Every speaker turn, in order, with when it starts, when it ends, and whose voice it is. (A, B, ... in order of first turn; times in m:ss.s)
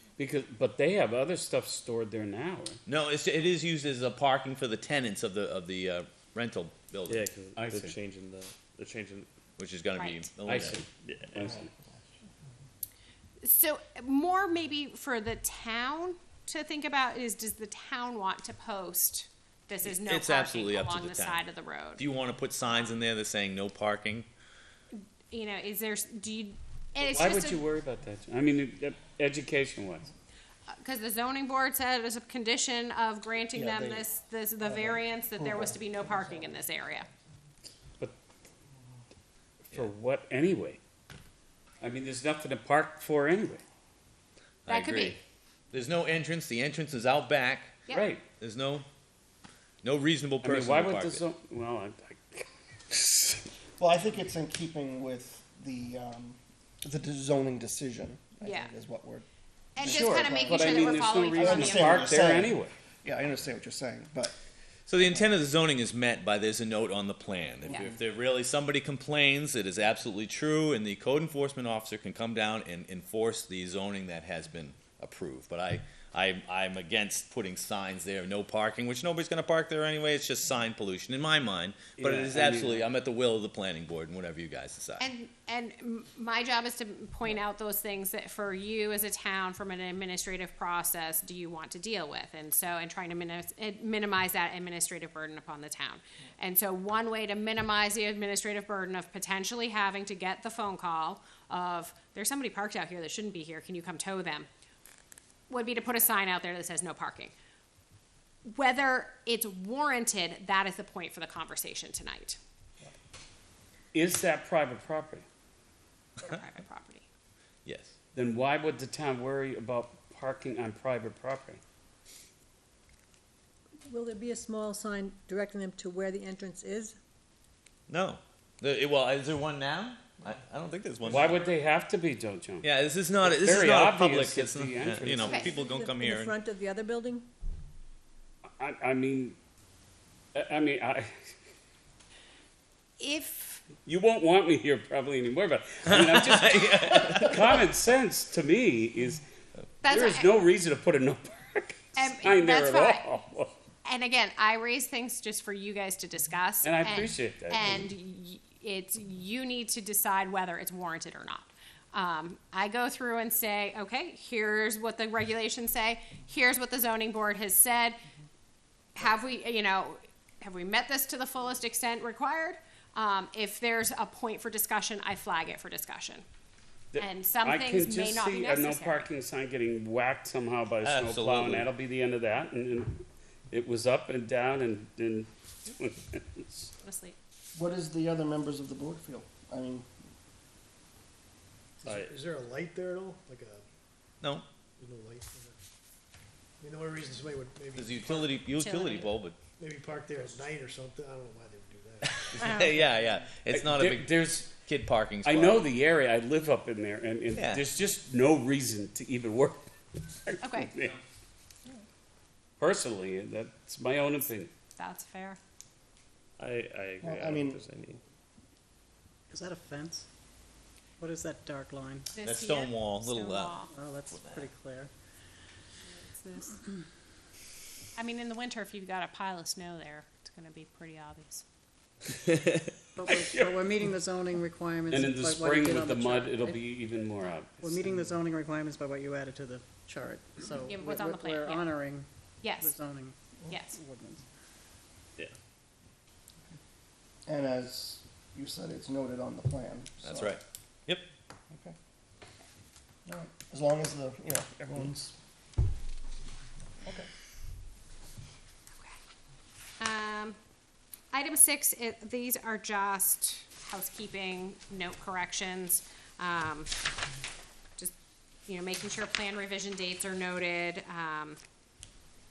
0:00.2-0:02.8 A
0:02.9-0:07.2 B
0:07.0-0:09.3 C
0:07.5-0:08.0 A
0:09.6-0:10.8 B
0:10.0-0:10.3 D
0:10.4-0:11.7 A
0:10.7-0:11.6 C
0:13.4-0:22.0 D
0:19.8-0:21.4 B
0:22.0-0:24.3 B
0:25.0-0:27.6 D
0:27.0-0:30.1 A
0:30.7-0:37.1 D
0:33.5-0:34.1 E
0:34.6-0:36.5 E
0:39.7-0:40.8 A
0:41.8-0:43.6 A
0:44.6-0:45.2 B
0:44.7-0:45.2 D
0:45.7-0:48.8 B
0:47.9-0:48.2 A
0:49.8-0:51.2 B
0:50.4-0:53.4 A
0:53.8-0:59.3 E
0:58.4-0:58.7 D
0:59.8-1:02.1 D
0:59.8-1:04.3 E
0:59.8-1:02.7 A
1:04.9-1:25.1 B
1:07.6-1:07.9 E
1:22.0-1:22.9 A
1:25.0-1:44.5 D
1:45.5-1:47.3 D
1:48.4-1:52.4 D
1:53.9-1:55.2 A
1:56.2-1:57.0 D
1:57.6-1:57.9 B
1:58.1-2:01.6 A
2:03.8-2:07.0 F
2:07.9-2:11.5 B
2:11.0-2:12.7 A
2:12.6-2:16.3 B
2:13.2-2:15.5 A
2:15.3-2:15.5 D
2:15.4-2:17.3 F
2:18.6-2:19.4 A
2:20.4-2:21.1 A
2:23.0-2:23.6 D
2:23.8-2:29.2 A
2:25.9-2:27.4 B
2:29.8-2:30.3 D
2:29.8-2:33.5 A
2:32.0-2:33.0 D
2:33.8-2:48.0 D
2:36.6-2:37.9 A
2:48.9-2:56.2 D
2:56.9-3:06.7 A
2:57.0-2:59.1 D
3:00.8-3:01.7 B
3:06.8-3:07.2 D
3:07.5-3:09.9 E
3:11.8-3:13.6 G
3:11.8-3:12.2 C
3:14.8-3:15.6 G
3:16.6-3:18.4 G
3:17.7-3:19.4 B
3:18.6-3:19.1 D
3:19.6-3:22.8 G
3:22.1-3:25.6 B
3:23.5-3:24.4 A
3:25.2-3:29.6 A
3:27.3-3:27.6 B
3:30.2-3:31.0 A
3:30.4-3:30.7 D
3:32.6-3:34.5 A
3:34.8-3:35.4 D
3:36.4-3:38.0 C
3:37.0-3:37.6 E
3:39.3-3:40.1 H
3:41.0-3:42.1 H
3:42.1-3:43.7 D
3:42.2-3:43.6 B
3:43.7-3:44.9 H
3:44.1-3:44.5 B
3:45.9-3:46.6 D
3:48.0-3:51.4 D
3:53.0-3:56.6 H
3:53.1-3:53.6 A
3:54.9-3:57.8 A
3:57.6-4:04.2 H
4:00.6-4:01.6 D
4:02.4-4:02.7 D
4:03.5-4:03.8 D
4:07.2-4:10.4 E
4:10.0-4:11.0 B
4:13.1-4:15.2 E
4:19.8-4:20.4 D
4:21.1-4:26.7 D
4:28.5-4:31.4 D